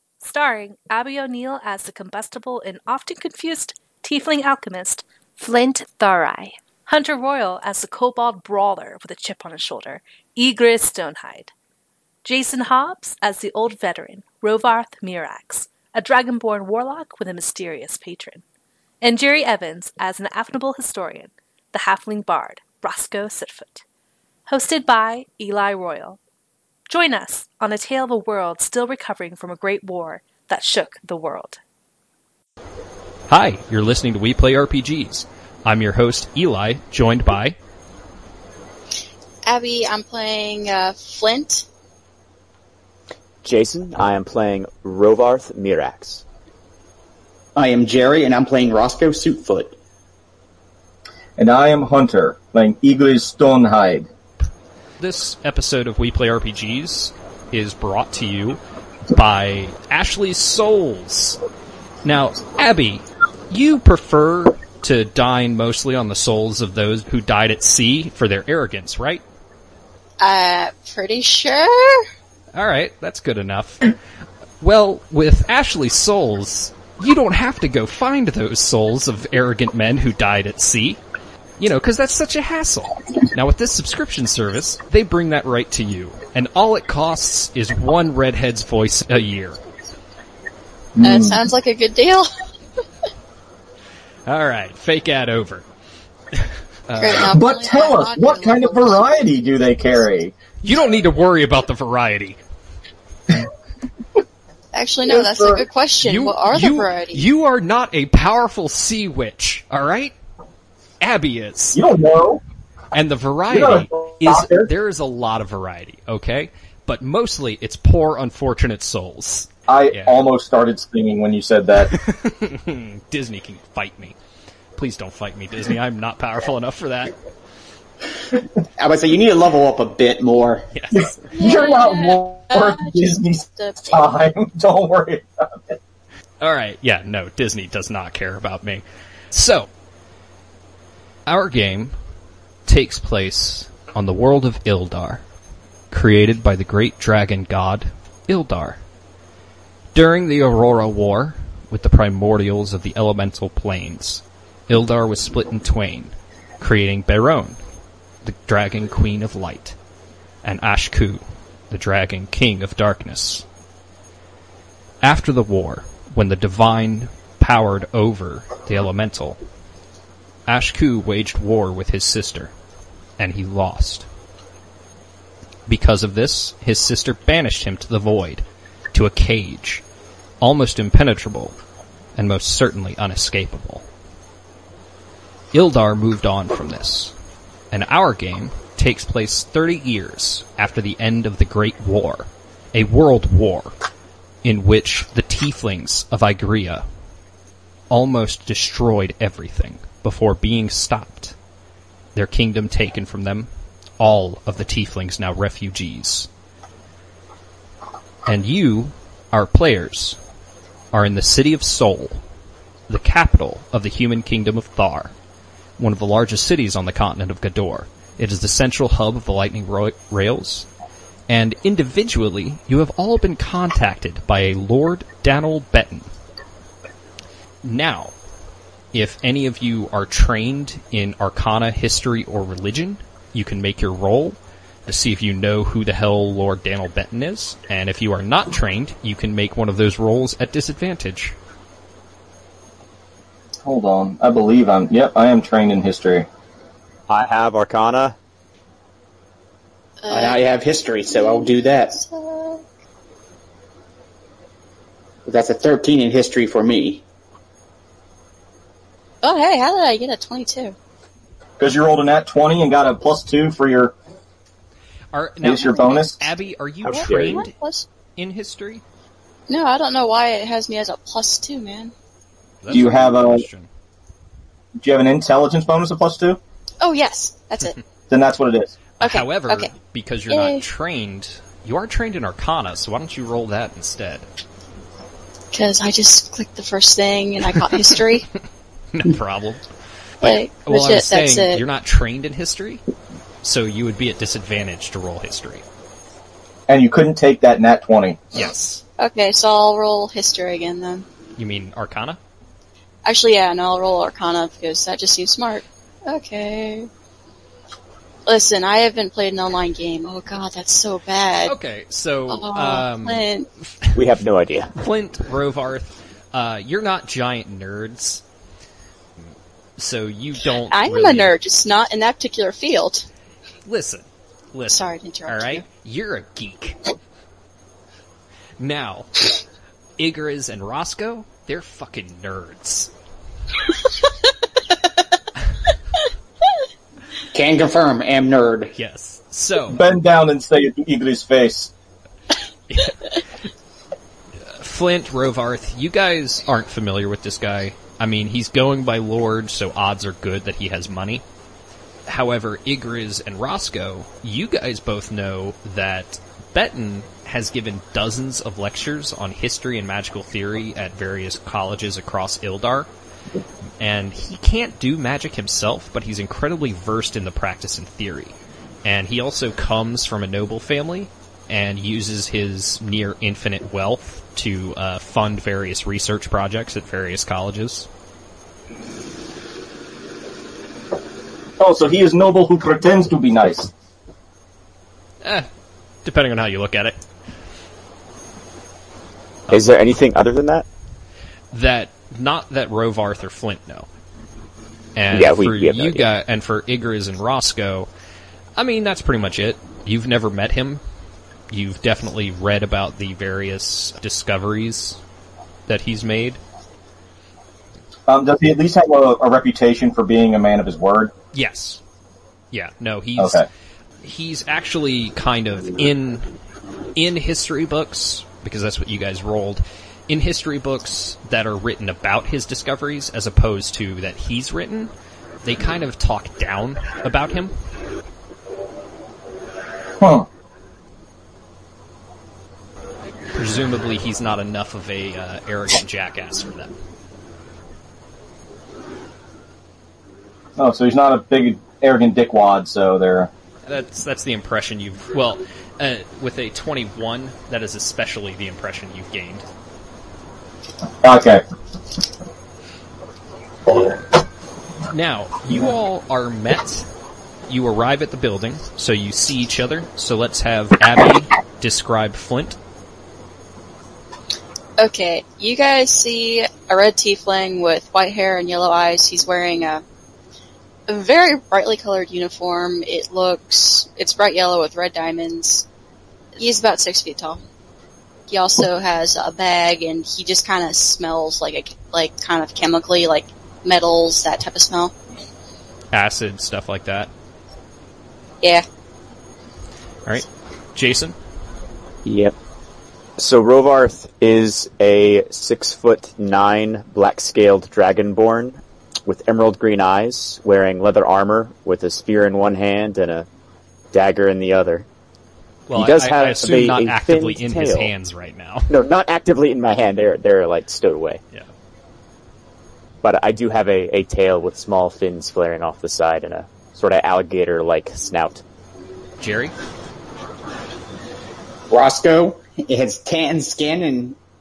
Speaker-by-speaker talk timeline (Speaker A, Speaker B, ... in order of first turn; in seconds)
Speaker A: 0.2-11.5, 12.2-18.4, 19.0-23.8, 24.5-26.2, 26.9-31.6
Speaker B: 33.3-37.6, 55.0-58.6, 59.1-61.4, 62.0-69.2, 72.5-74.0, 74.6-81.0, 81.6-89.6, 94.3-95.7, 96.3-97.3, 100.6-102.4, 106.0-110.1, 111.0-111.8, 112.9-120.2, 122.0-124.2, 124.8-127.2, 130.8-131.2, 136.4-139.7, 141.3-142.0, 142.7-145.2, 145.9-148.8, 149.9-157.6, 158.2-159.8, 160.4-163.5, 165.0-169.4, 170.5-172.5, 173.2-174.1, 175.7-179.8, 180.4-181.6, 182.2-183.8, 185.5-187.1, 187.7-193.7, 194.4-196.8, 197.9-201.3, 202.2-203.5, 204.0-206.3, 208.2-210.2, 210.9-212.2, 212.9-215.1, 215.8-220.7, 221.3-226.1, 227.6-228.1, 228.9-241.3, 265.1-267.5, 268.2-268.8, 272.6-273.7, 279.0-284.3, 288.9-289.6, 290.2-292.8, 293.4-295.6, 298.3-298.8, 301.4-302.2, 311.4-313.3, 314.7-318.2, 319.8-321.3, 323.7-326.9, 328.6-329.3, 330.0-332.9, 338.8-339.8, 344.5-351.2, 352.1-362.9, 363.8-377.9, 385.2-385.5, 386.1-387.0, 389.5-389.8, 391.5-393.9, 395.0-397.9, 398.6-400.8, 401.5-405.0, 405.7-406.4, 411.3-411.8, 412.5-413.4, 414.0-416.3, 417.0-424.9, 425.4-427.5, 433.3-436.7, 443.7-449.4, 454.9-456.9, 457.5-462.6, 485.9-487.1, 490.1-491.2, 505.7-508.7, 519.2-519.5
Speaker C: 39.5-41.6, 70.2-72.0, 91.0-92.3, 97.0-99.0, 104.7-107.2, 131.3-133.1, 250.0-250.4, 251.1-252.7, 259.2-260.8, 266.9-267.9, 269.5-271.9, 276.8-277.8, 279.0-279.7, 280.3-280.6, 285.5-288.3, 290.2-291.6, 299.0-301.1, 303.1-306.9, 308.3-311.6, 312.3-313.5, 320.7-323.1, 324.7-325.6, 464.8-469.8, 470.9-475.7, 476.4-477.4, 478.3-484.9
Speaker D: 43.4-46.2, 247.1-248.2, 266.9-267.5, 313.9-314.7, 389.5-390.7, 395.1-396.1, 492.1-492.4, 493.2-503.3, 503.9-504.9, 505.7-507.9, 508.7-511.2, 513.0-518.4
Speaker E: 47.6-49.8, 128.8-130.7, 250.1-252.0, 255.3-257.0, 337.3-338.7, 521.7-524.2
Speaker F: 51.4-54.1, 91.0-91.4, 97.3-100.3, 105.1-105.7, 111.7-112.4, 113.5-114.7, 119.7-121.9, 130.9-135.8, 243.7-246.3, 261.6-263.9, 265.4-266.3, 272.7-273.5, 274.8-276.4, 278.1-278.8, 296.7-298.2, 339.7-341.7, 381.6-383.7, 408.1-411.1, 413.2-413.5, 430.0-430.3, 440.6-443.3, 451.0-451.4